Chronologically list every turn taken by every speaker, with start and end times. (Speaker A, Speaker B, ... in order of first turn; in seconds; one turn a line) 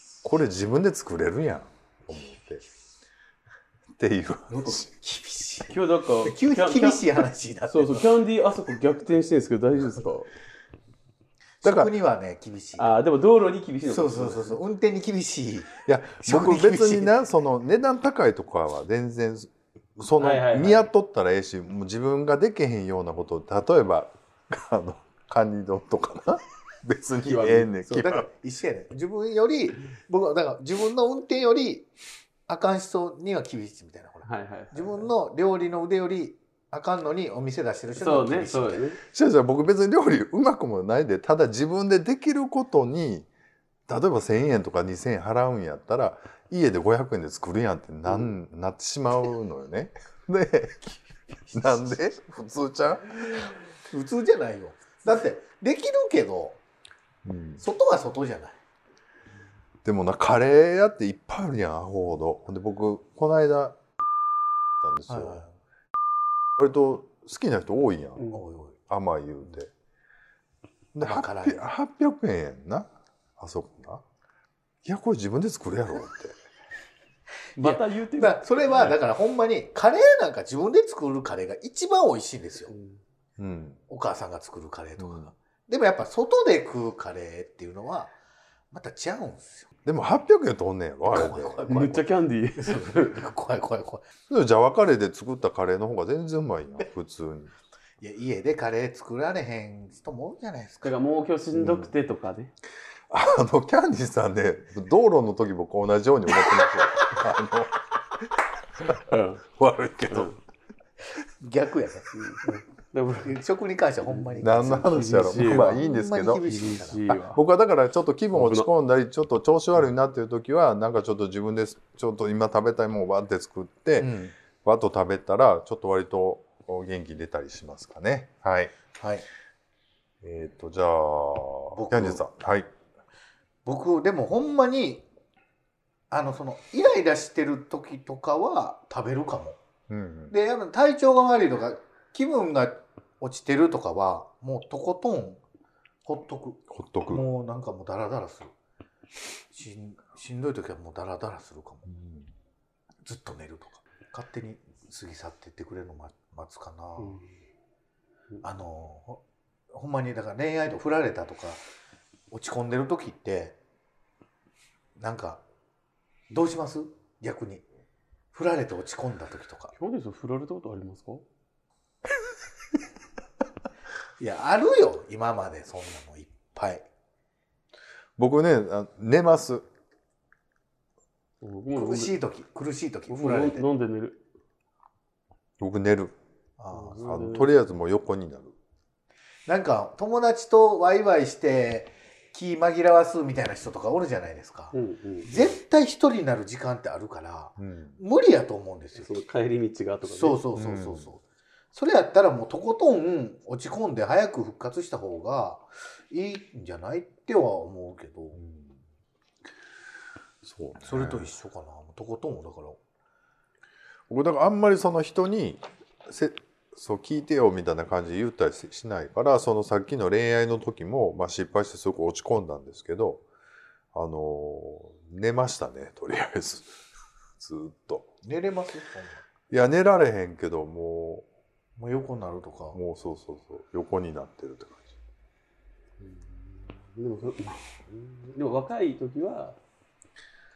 Speaker A: 0.2-2.6
Speaker A: 4.0-4.9
Speaker B: 4.5-8.1
Speaker C: 5.7-7.1
Speaker C: 7.7-10.3
Speaker B: 11.6-12.9
Speaker A: 11.6-11.9
Speaker C: 12.8-14.6
Speaker B: 13.8-17.1
Speaker A: 15.8-28.3
Speaker C: 20.2-20.8
Speaker C: 27.2-28.0
Speaker B: 27.9-31.9
Speaker B: 32.5-38.8
Speaker C: 34.2-35.1
Speaker C: 38.0-39.0
Speaker A: 39.1-43.3
Speaker A: 43.9-53.5
Speaker B: 53.9-56.6
Speaker A: 57.2-57.6
Speaker B: 57.6-58.6
Speaker A: 59.8-63.9
Speaker A: 64.8-65.4
Speaker B: 65.1-65.5
Speaker A: 66.6-68.3
Speaker B: 68.3-68.8
Speaker A: 68.9-69.7
Speaker A: 70.9-74.0
Speaker B: 71.0-71.7
Speaker A: 74.8-76.4
Speaker B: 77.5-82.7
Speaker C: 77.6-79.0
Speaker C: 82.7-83.0
Speaker A: 83.4-83.8
Speaker B: 83.9-88.1
Speaker A: 85.0-85.3
Speaker B: 88.7-89.7
Speaker A: 89.8-91.9
Speaker B: 91.0-92.0
Speaker C: 91.7-93.2
Speaker B: 92.6-94.0
Speaker A: 94.3-97.5
Speaker B: 98.0-101.0
Speaker C: 100.8-102.5
Speaker A: 101.5-101.9
Speaker A: 103.1-108.3
Speaker A: 108.8-110.3
Speaker C: 109.1-109.4
Speaker B: 111.4-112.6
Speaker C: 112.1-113.4
Speaker B: 113.2-117.1
Speaker C: 114.1-117.4
Speaker A: 114.4-116.5
Speaker A: 117.1-128.7
Speaker C: 118.3-118.7
Speaker B: 124.0-124.3
Speaker B: 128.9-129.2
Speaker A: 130.2-132.7
Speaker B: 131.7-132.2
Speaker B: 133.6-135.1
Speaker B: 136.1-139.6
Speaker A: 139.9-140.3
Speaker B: 140.3-145.4
Speaker B: 146.0-148.5
Speaker A: 146.7-147.2
Speaker B: 149.5-151.8
Speaker A: 151.9-152.3
Speaker B: 153.0-157.2
Speaker C: 157.0-157.3
Speaker B: 158.4-161.6
Speaker B: 162.3-163.6
Speaker B: 165.0-165.4
Speaker B: 166.3-167.6
Speaker B: 168.3-169.7
Speaker C: 169.8-171.2
Speaker B: 174.2-176.9
Speaker A: 178.2-179.6
Speaker C: 181.4-182.1
Speaker B: 181.7-183.6
Speaker C: 183.1-184.2
Speaker A: 185.6-186.2
Speaker B: 186.6-187.3
Speaker C: 186.7-187.5
Speaker A: 187.0-188.5
Speaker B: 189.5-199.2
Speaker C: 194.7-195.4
Speaker A: 197.6-198.0
Speaker C: 198.9-200.4
Speaker B: 200.0-201.2
Speaker A: 200.5-201.1
Speaker B: 201.7-208.4
Speaker A: 208.3-208.8
Speaker A: 210.4-211.3
Speaker B: 210.8-212.8
Speaker A: 214.1-223.2
Speaker A: 223.9-226.8
Speaker A: 227.4-228.1
Speaker B: 228.2-229.2
Speaker A: 229.5-231.2
Speaker B: 231.8-232.8
Speaker A: 232.7-234.9
Speaker C: 236.0-239.6